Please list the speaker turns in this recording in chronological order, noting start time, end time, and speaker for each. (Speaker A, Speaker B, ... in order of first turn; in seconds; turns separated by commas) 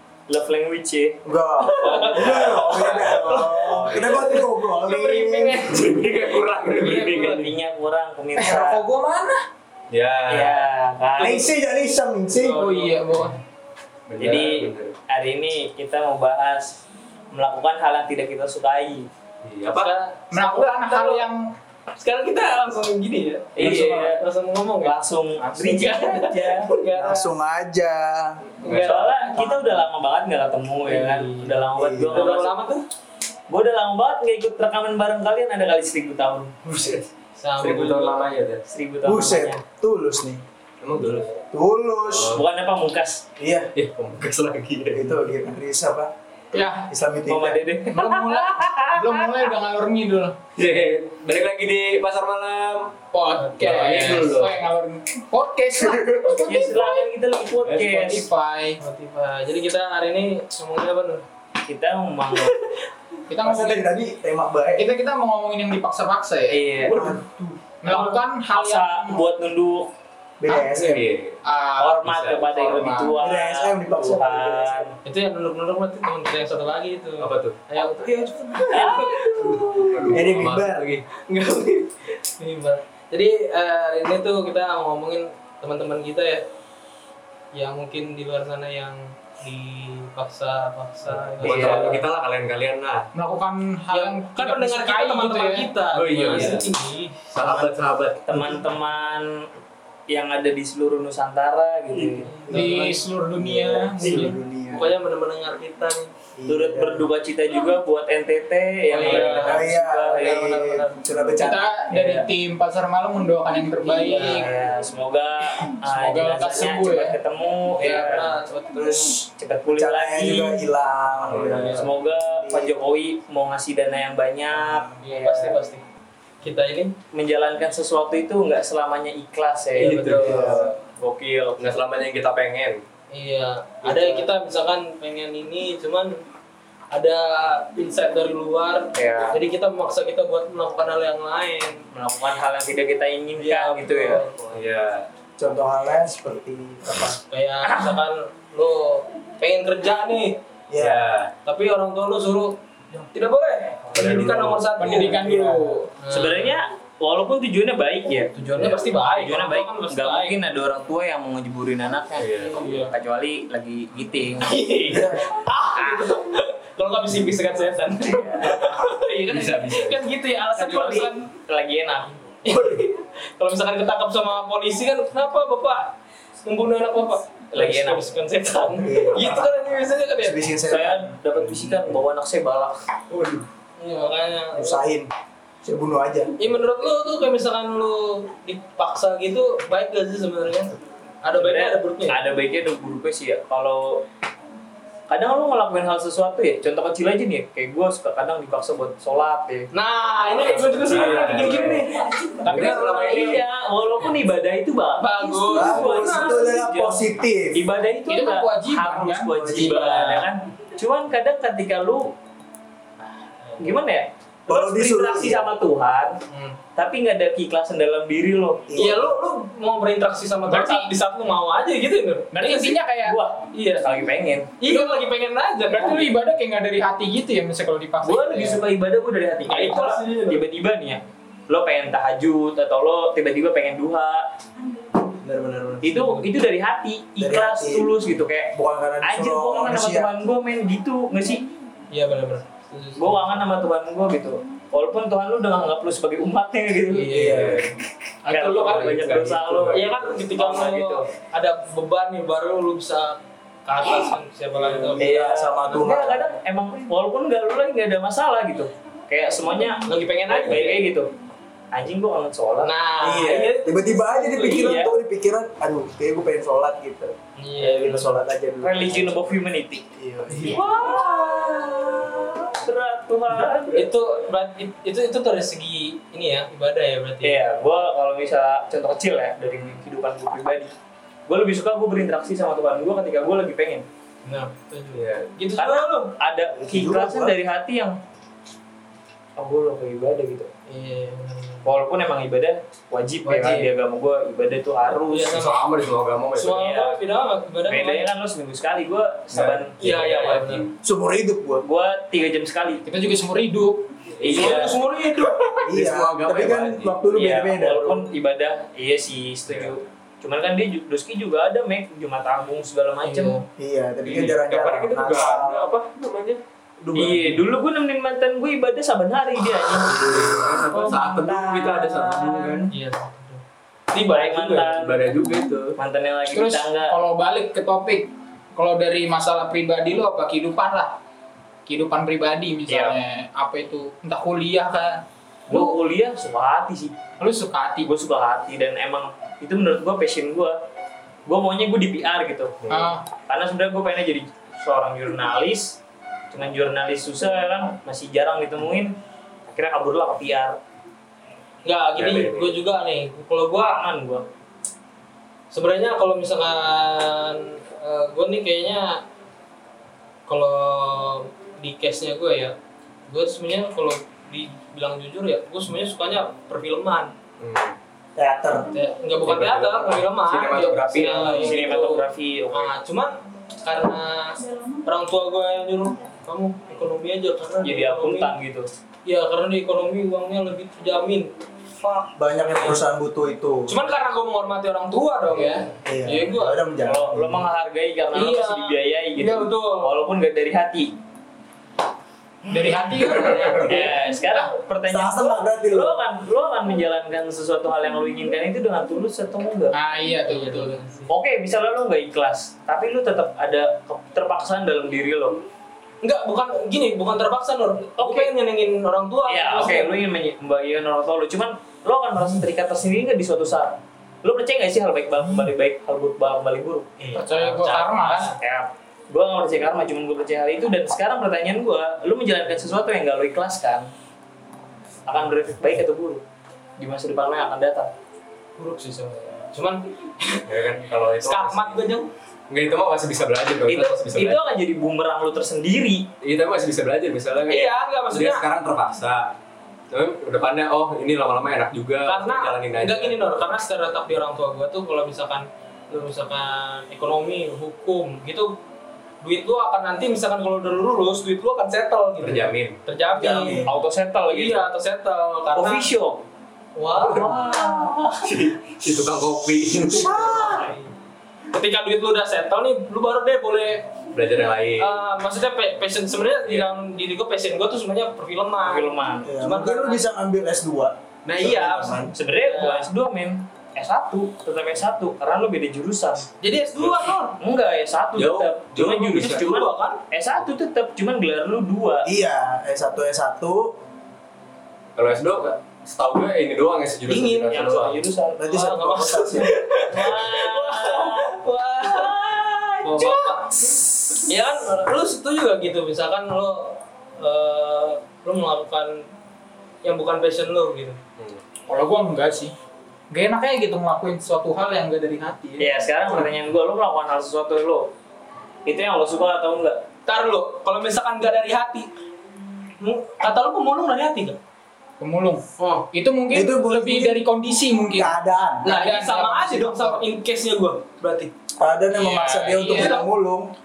Speaker A: 0.3-1.2, Speaker B: 1.2-5.6, Speaker C: 1.6-5.9, Speaker A: 1.8-2.9, Speaker D: 3.6-4.2, Speaker D: 5.6-7.5, Speaker A: 6.8-8.8, Speaker E: 8.3-9.4, Speaker B: 8.4-8.7, Speaker D: 9.9-10.6, Speaker A: 10.3-11.4, Speaker B: 11.2-12.6, Speaker C: 12.3-13.3, Speaker E: 12.5-13.4, Speaker D: 14.1-14.9, Speaker A: 14.2-19.1, Speaker D: 19.4-19.9, Speaker C: 19.8-21.2, Speaker E: 20.3-21.5, Speaker C: 21.9-27.3, Speaker A: 23.6-24.2, Speaker A: 24.8-26.7, Speaker B: 26.9-28.4, Speaker C: 28.6-29.1, Speaker D: 28.6-29.1, Speaker A: 28.7-32.6, Speaker B: 29.3-29.8, Speaker C: 30.8-32.8, Speaker B: 31.7-32.3, Speaker A: 33.5-36.6, Speaker D: 36.6-37.1, Speaker C: 37.4-38.3, Speaker D: 37.6-38.6, Speaker A: 38.7-39.6, Speaker B: 39.0-40.4, Speaker D: 40.8-41.4, Speaker B: 41.5-42.4, Speaker D: 42.1-42.4, Speaker A: 42.3-43.2, Speaker B: 43.4-43.7, Speaker D: 43.7-45.1, Speaker B: 44.9-46.1, Speaker E: 46.5-46.9, Speaker B: 46.9-47.7, Speaker A: 47.2-49.4, Speaker E: 47.9-50.4, Speaker D: 50.5-53.0, Speaker E: 53.1-57.1, Speaker D: 53.5-54.7, Speaker A: 56.3-58.3, Speaker D: 57.6-58.0, Speaker E: 57.8-58.8, Speaker C: 58.8-61.2, Speaker A: 61.6-62.5, Speaker C: 62.3-62.6, Speaker E: 63.3-64.0, Speaker B: 63.4-64.9, Speaker E: 64.7-67.1, Speaker A: 66.5-67.1, Speaker B: 66.8-67.6, Speaker E: 67.8-69.2, Speaker A: 67.8-69.9, Speaker B: 70.4-71.1, Speaker E: 70.5-70.7, Speaker D: 70.7-71.4, Speaker E: 71.4-73.2, Speaker A: 71.8-74.9, Speaker D: 72.0-72.5, Speaker B: 73.2-75.0, Speaker C: 75.0-80.1, Speaker D: 77.2-77.6, Speaker A: 78.7-79.7, Speaker D: 79.4-81.0, Speaker B: 80.1-80.9, Speaker C: 81.2-86.4, Speaker C: 87.5-92.0, Speaker D: 91.4-93.1, Speaker A: 91.4-92.0, Speaker E: 93.1-95.7, Speaker C: 93.9-97.2, Speaker D: 95.9-96.7, Speaker D: 97.3-98.2, Speaker B: 97.4-97.7, Speaker A: 98.2-99.5, Speaker B: 98.3-98.6, Speaker A: 100.1-102.3, Speaker C: 102.0-103.0, Speaker B: 102.5-104.9, Speaker E: 102.5-104.3, Speaker C: 104.7-106.1, Speaker B: 106.4-107.1, Speaker A: 106.5-110.4, Speaker C: 108.9-111.0, Speaker B: 109.0-111.6, Speaker E: 111.4-114.5, Speaker A: 111.9-112.2, Speaker A: 113.8-118.3, Speaker E: 115.6-117.2, Speaker C: 117.7-119.1, Speaker B: 117.8-122.8, Speaker A: 119.4-120.7, Speaker D: 121.2-121.8, Speaker A: 121.5-125.5, Speaker B: 124.5-125.0, Speaker C: 125.0-125.8, Speaker C: 126.4-126.9, Speaker A: 127.1-131.8, Speaker C: 129.7-130.6, Speaker D: 129.8-130.7, Speaker B: 130.2-130.7, Speaker D: 131.4-132.8, Speaker C: 133.1-136.2, Speaker B: 133.8-134.2, Speaker C: 136.9-141.8, Speaker A: 138.9-139.4, Speaker A: 141.9-144.2, Speaker C: 143.4-144.5, Speaker D: 144.5-145.1, Speaker B: 145.4-147.2, Speaker C: 147.3-150.4, Speaker A: 147.6-148.0, Speaker B: 150.7-151.0, Speaker D: 150.8-151.3, Speaker C: 151.4-155.2, Speaker D: 153.9-155.0, Speaker E: 154.8-155.9, Speaker B: 155.1-155.7, Speaker C: 156.0-156.6, Speaker A: 156.1-164.6, Speaker C: 158.3-160.4, Speaker D: 162.2-162.7, Speaker C: 162.4-162.9, Speaker C: 164.3-171.3, Speaker B: 164.9-165.2, Speaker A: 165.7-166.1, Speaker A: 168.0-168.8, Speaker D: 169.3-170.0, Speaker A: 170.5-172.2, Speaker C: 172.4-175.9, Speaker C: 176.4-180.4, Speaker A: 177.5-178.0, Speaker B: 178.8-179.6, Speaker B: 180.1-181.2, Speaker A: 180.6-182.8, Speaker D: 183.1-183.4, Speaker C: 183.8-184.8, Speaker B: 184.5-185.1, Speaker B: 185.6-186.5, Speaker C: 186.4-192.2, Speaker A: 191.3-194.0, Speaker A: 195.1-199.7, Speaker C: 199.7-203.4, Speaker D: 200.4-201.9, Speaker A: 200.8-201.8, Speaker D: 202.4-203.4, Speaker A: 202.4-207.0, Speaker C: 205.0-206.5, Speaker B: 205.5-207.7, Speaker A: 207.5-212.1, Speaker E: 208.1-209.9, Speaker B: 209.3-209.8, Speaker C: 209.6-210.3, Speaker C: 213.5-213.8, Speaker A: 213.6-216.2, Speaker B: 214.5-215.5, Speaker C: 216.3-216.6, Speaker A: 216.7-218.8, Speaker B: 218.7-219.2, Speaker C: 218.7-222.8, Speaker E: 220.5-220.9, Speaker E: 222.3-223.2, Speaker A: 223.0-224.5, Speaker C: 223.5-223.9, Speaker C: 224.6-226.1, Speaker E: 224.6-225.1, Speaker E: 225.7-228.6, Speaker A: 228.0-234.3, Speaker C: 229.4-230.4, Speaker B: 235.2-236.0, Speaker A: 235.8-241.5, Speaker C: 235.9-236.3, Speaker B: 237.2-237.9, Speaker B: 238.5-240.2, Speaker C: 241.9-243.3, Speaker A: 243.0-247.4, Speaker C: 246.9-247.6, Speaker B: 247.1-247.7, Speaker D: 247.3-247.6, Speaker A: 248.3-251.1, Speaker C: 248.3-255.1, Speaker D: 248.5-250.2, Speaker B: 254.8-256.3, Speaker A: 255.0-261.1, Speaker C: 259.7-260.9, Speaker A: 261.7-262.7, Speaker C: 262.6-264.5, Speaker B: 263.0-269.4, Speaker A: 264.3-264.9, Speaker C: 267.4-268.2, Speaker A: 268.6-269.9, Speaker B: 269.9-270.7, Speaker C: 270.4-271.5, Speaker A: 270.4-273.9, Speaker C: 273.7-277.4, Speaker A: 277.2-280.7, Speaker C: 279.4-279.8, Speaker A: 281.3-283.9, Speaker C: 284.2-286.1, Speaker D: 284.9-285.3, Speaker A: 285.6-288.0, Speaker B: 286.6-287.4, Speaker A: 289.4-290.5, Speaker C: 290.7-291.6, Speaker A: 291.6-295.4, Speaker C: 293.2-293.7, Speaker C: 295.1-295.6, Speaker D: 295.3-296.6, Speaker C: 296.4-298.1, Speaker A: 296.5-297.0, Speaker A: 297.7-300.1, Speaker D: 299.3-300.7, Speaker C: 299.8-300.6, Speaker B: 300.8-301.6, Speaker A: 301.6-302.8, Speaker E: 302.8-303.9, Speaker D: 304.1-304.7, Speaker A: 304.2-304.8, Speaker C: 304.3-305.7, Speaker B: 305.7-308.1, Speaker D: 305.7-307.0, Speaker A: 307.1-313.4, Speaker D: 309.5-309.8, Speaker C: 313.0-313.4, Speaker B: 313.6-315.7, Speaker D: 314.0-316.4, Speaker B: 316.8-317.4, Speaker A: 316.9-322.7, Speaker B: 319.9-320.5, Speaker D: 319.9-322.7, Speaker C: 322.7-324.8, Speaker A: 324.0-325.1, Speaker D: 324.6-325.8, Speaker A: 325.8-326.9, Speaker E: 326.3-331.0, Speaker E: 331.7-335.8, Speaker A: 332.7-332.9, Speaker A: 335.5-336.9, Speaker E: 337.2-337.9, Speaker A: 337.8-340.6, Speaker A: 341.2-342.6, Speaker D: 342.6-342.9, Speaker E: 342.7-343.1, Speaker A: 343.3-345.8, Speaker A: 346.3-348.9, Speaker A: 349.5-350.6, Speaker C: 351.6-353.8, Speaker D: 351.9-352.6, Speaker A: 353.6-354.3, Speaker C: 355.5-359.0, Speaker C: 360.3-362.5, Speaker C: 363.1-367.1, Speaker D: 367.4-367.8, Speaker B: 368.1-368.7, Speaker C: 368.7-378.4, Speaker D: 369.2-371.7, Speaker A: 371.1-372.7, Speaker E: 371.2-371.5, Speaker A: 377.6-378.7, Speaker C: 379.0-382.9, Speaker B: 382.1-383.7, Speaker C: 383.7-386.6, Speaker A: 385.4-385.6, Speaker B: 385.8-387.5, Speaker A: 386.8-390.9, Speaker C: 388.1-390.1, Speaker E: 392.5-394.4, Speaker A: 392.7-399.7, Speaker B: 394.9-396.0, Speaker E: 399.7-400.8, Speaker C: 400.3-401.1, Speaker A: 401.1-405.4, Speaker C: 406.0-410.0, Speaker A: 408.0-408.3, Speaker A: 409.3-416.9, Speaker C: 417.0-418.3, Speaker E: 417.1-418.3, Speaker A: 418.1-423.9, Speaker A: 425.1-426.2, Speaker A: 426.8-427.9, Speaker C: 428.6-432.1, Speaker D: 430.5-431.8, Speaker D: 432.5-434.4, Speaker A: 433.6-436.1, Speaker D: 436.2-439.3, Speaker C: 437.5-438.5, Speaker D: 439.9-443.2, Speaker C: 442.1-448.6, Speaker C: 449.2-453.7, Speaker D: 452.2-452.8, Speaker B: 453.1-453.7, Speaker A: 453.6-454.6, Speaker C: 454.2-455.9, Speaker A: 455.5-456.2, Speaker C: 456.8-457.6, Speaker A: 457.0-458.4, Speaker D: 458.2-460.2, Speaker C: 459.9-460.9, Speaker C: 461.5-463.9, Speaker D: 464.1-465.0, Speaker C: 464.8-470.0, Speaker D: 466.4-466.7, Speaker A: 468.6-469.3, Speaker B: 469.2-472.1, Speaker C: 471.2-472.9, Speaker A: 472.1-476.3, Speaker C: 476.4-477.4, Speaker A: 477.4-482.1, Speaker D: 478.1-479.5, Speaker C: 479.2-480.0, Speaker B: 482.0-483.8, Speaker D: 484.9-488.0, Speaker C: 487.1-487.8, Speaker A: 487.5-488.7, Speaker B: 488.4-489.6, Speaker C: 488.5-499.0, Speaker A: 489.9-493.7, Speaker C: 499.8-501.0, Speaker E: 501.7-502.5, Speaker E: 503.1-505.7, Speaker A: 505.6-507.9, Speaker A: 508.6-509.8, Speaker C: 510.1-511.9, Speaker C: 512.8-514.4, Speaker E: 515.0-520.0, Speaker C: 515.6-515.9, Speaker B: 516.3-517.2, Speaker B: 517.9-518.7, Speaker C: 518.6-521.3, Speaker B: 521.6-523.5, Speaker E: 521.9-523.0, Speaker C: 522.6-523.1